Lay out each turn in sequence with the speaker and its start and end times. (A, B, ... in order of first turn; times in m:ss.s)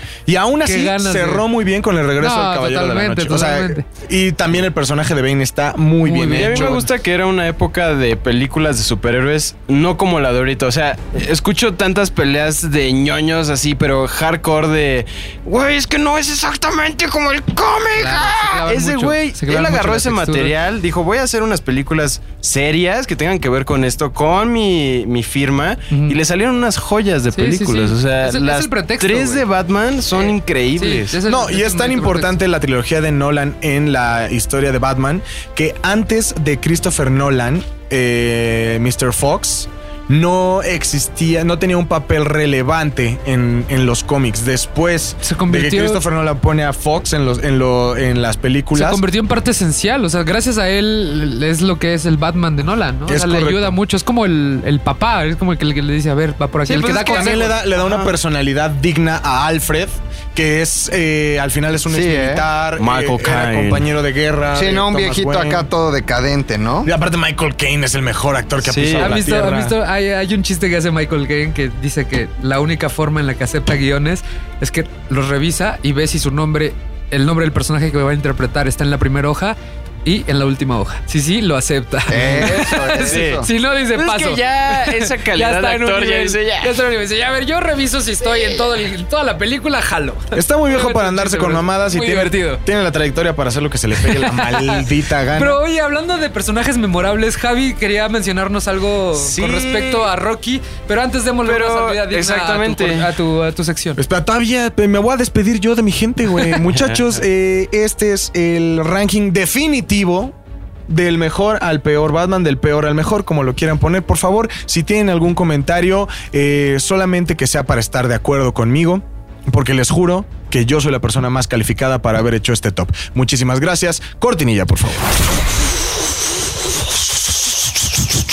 0:00.3-0:06.8 A
0:00.6-0:01.5 B
0:02.2-0:03.8 B
0:06.0-0:06.9 B
0:06.4-0:31.2 C
0:18.0-0:20.5 B
0:25.9-0:26.2 B
0:27.3-0:29.4 B
0:30.1-0:32.4 B
0:31.3-0:49.0 A
0:45.2-0:46.0 B
0:48.7-0:57.6 B
0:53.1-0:53.7 A
0:56.7-1:05.7 A
0:56.7-0:58.1 C
1:01.9-1:02.4 D
1:02.8-1:03.9 C
1:04.5-1:06.9 D
1:06.8-1:09.8 A
1:08.6-1:09.2 C
1:09.0-1:32.6 B
1:22.1-1:23.5 D
1:23.1-1:26.8 C
1:30.3-1:35.6 A
1:34.0-1:44.0 B
1:39.2-1:40.1 C
1:41.4-1:43.1 C
1:44.0-1:50.4 A
1:46.6-1:47.0 C
1:50.9-2:05.2 A